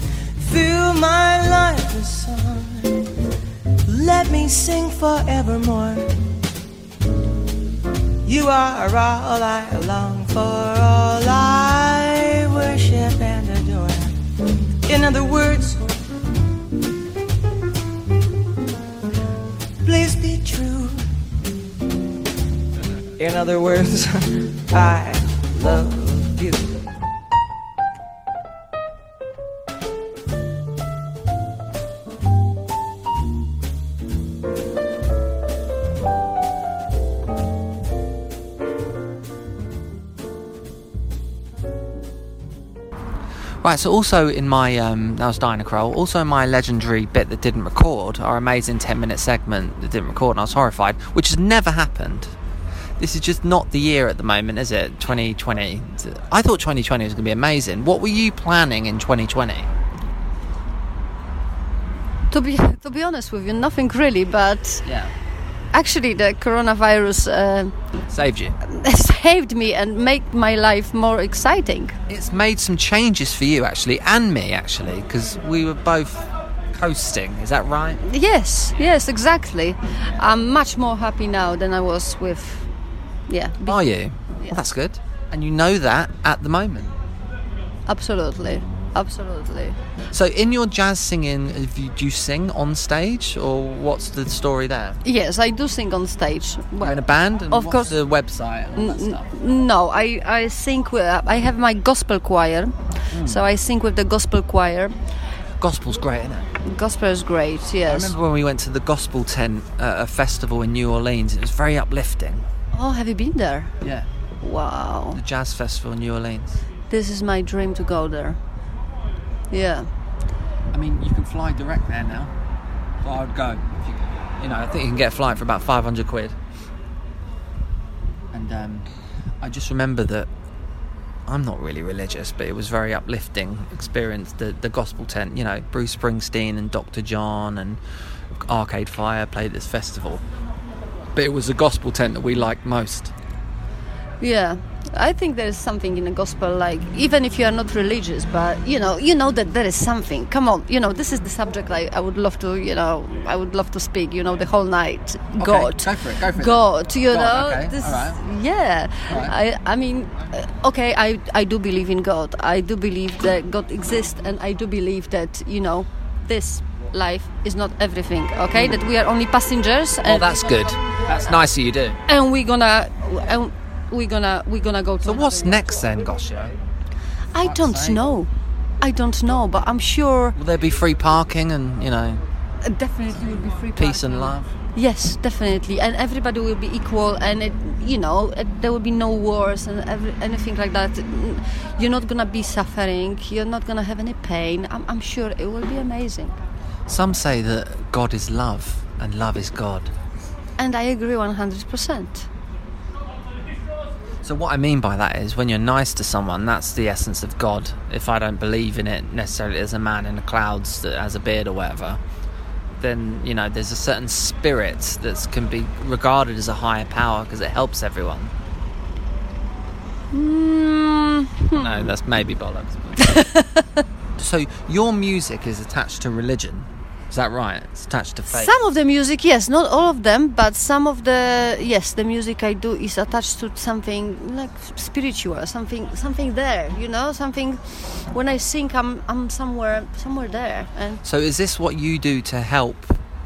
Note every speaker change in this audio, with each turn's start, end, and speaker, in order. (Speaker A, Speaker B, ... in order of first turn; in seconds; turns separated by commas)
Speaker A: 0.3-3.1, Speaker A: 3.9-6.2, Speaker A: 8.2-14.2, Speaker A: 14.8-15.9, Speaker A: 19.8-21.1, Speaker A: 23.2-26.9, Speaker B: 43.6-52.3, Speaker B: 53.0-59.7, Speaker C: 62.3-64.9, Speaker B: 64.8-65.1, Speaker C: 65.7-67.7, Speaker B: 68.1-68.5, Speaker C: 68.6-72.0, Speaker B: 72.1-78.0, Speaker C: 78.0-82.7, Speaker C: 83.3-83.8, Speaker B: 83.7-87.0, Speaker C: 84.3-84.6, Speaker C: 87.9-89.8, Speaker B: 90.1-95.0, Speaker C: 95.0-98.0, Speaker B: 96.8-99.3, Speaker C: 98.8-104.9, Speaker B: 103.1-103.4, Speaker B: 105.6-106.5, Speaker C: 106.6-108.1, Speaker B: 107.9-112.4, Speaker C: 112.7-113.7, Speaker B: 113.8-114.1, Speaker C: 114.4-115.2, Speaker B: 115.1-116.6, Speaker C: 116.9-118.4, Speaker C: 119.5-119.9, Speaker B: 120.7-122.3, Speaker B: 123.0-126.3, Speaker B: 128.3-128.9, Speaker B: 129.4-130.3, Speaker B: 131.3-137.8, Speaker B: 138.4-140.2, Speaker B: 141.1-143.1, Speaker C: 144.2-170.8, Speaker B: 155.4-158.2, Speaker B: 159.1-159.3, Speaker B: 168.5-168.8, Speaker B: 170.0-172.0, Speaker C: 172.1-175.6, Speaker B: 175.0-176.5, Speaker C: 177.3-178.3, Speaker B: 177.4-178.0, Speaker C: 178.8-180.3, Speaker B: 180.3-182.2, Speaker C: 182.6-196.4, Speaker B: 183.8-184.5, Speaker B: 196.9-199.9, Speaker C: 200.6-202.3, Speaker B: 204.2-212.0, Speaker B: 212.8-218.3, Speaker C: 220.1-221.8, Speaker B: 221.5-223.2, Speaker C: 223.0-223.8, Speaker B: 224.2-228.5, Speaker C: 228.3-241.0, Speaker B: 241.0-243.0